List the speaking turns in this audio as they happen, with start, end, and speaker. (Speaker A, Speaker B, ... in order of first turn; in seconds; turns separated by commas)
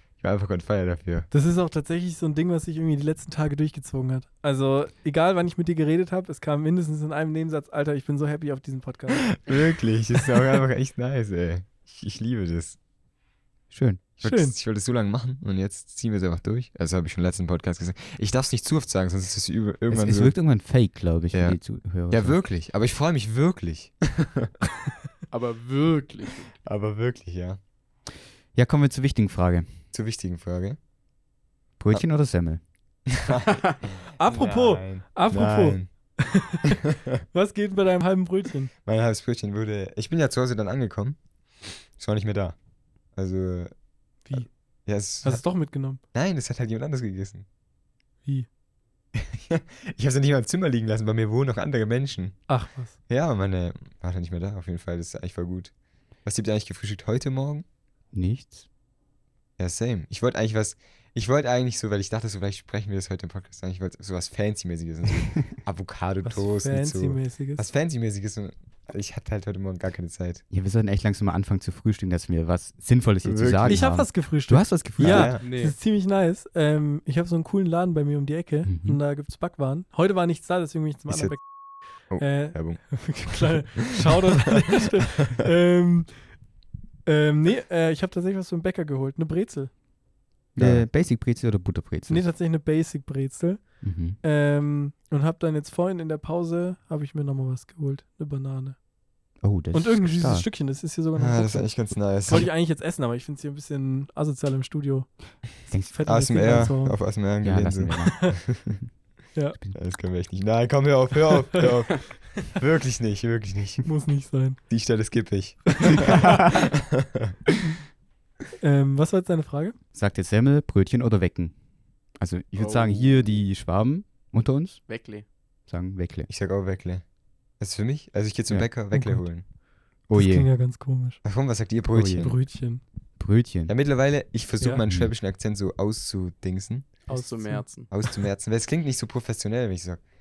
Speaker A: 0.2-1.3, Speaker B: 1.3-9.5, Speaker A: 9.3-12.8, Speaker C: 13.7-14.0, Speaker A: 14.2-20.4, Speaker B: 14.2-14.6, Speaker C: 19.9-22.4, Speaker A: 21.3-24.5, Speaker D: 25.3-26.5, Speaker A: 26.6-27.6, Speaker C: 28.5-29.8, Speaker A: 29.9-30.8, Speaker C: 31.8-32.6, Speaker A: 33.1-35.9, Speaker B: 34.2-38.7, Speaker A: 38.9-41.2, Speaker A: 42.0-42.6, Speaker A: 43.2-43.7, Speaker A: 44.3-45.5, Speaker B: 45.2-46.0, Speaker A: 46.1-47.5, Speaker A: 49.1-52.4, Speaker B: 52.5-53.0, Speaker A: 53.1-55.7, Speaker A: 56.2-57.6, Speaker C: 58.1-58.7, Speaker A: 59.6-70.4, Speaker B: 66.2-67.7, Speaker C: 70.5-75.4, Speaker A: 73.2-74.1, Speaker B: 73.7-86.3, Speaker A: 75.0-75.5, Speaker D: 75.4-75.8, Speaker C: 78.7-79.0, Speaker A: 81.1-83.5, Speaker B: 87.0-89.7, Speaker C: 90.5-92.3, Speaker A: 90.6-90.9, Speaker B: 92.1-98.8, Speaker C: 93.8-94.2, Speaker C: 99.4-100.5, Speaker B: 99.7-107.0, Speaker A: 101.2-102.5, Speaker C: 105.7-106.0, Speaker A: 106.0-108.7, Speaker C: 107.4-108.9, Speaker A: 109.8-113.9, Speaker B: 113.8-114.6, Speaker A: 114.7-117.3, Speaker B: 115.8-116.2, Speaker B: 118.6-119.8, Speaker C: 119.9-121.6, Speaker C: 122.2-124.9, Speaker D: 122.6-123.2, Speaker D: 124.9-125.2, Speaker C: 125.7-126.3, Speaker A: 126.3-127.0, Speaker A: 127.6-129.4, Speaker B: 128.9-129.2, Speaker C: 130.1-130.5, Speaker B: 130.1-131.2, Speaker A: 131.2-132.4, Speaker C: 131.9-132.4, Speaker B: 132.2-132.8, Speaker C: 133.2-133.7, Speaker A: 133.7-137.0, Speaker D: 137.1-137.9, Speaker B: 137.1-137.7, Speaker A: 137.9-140.0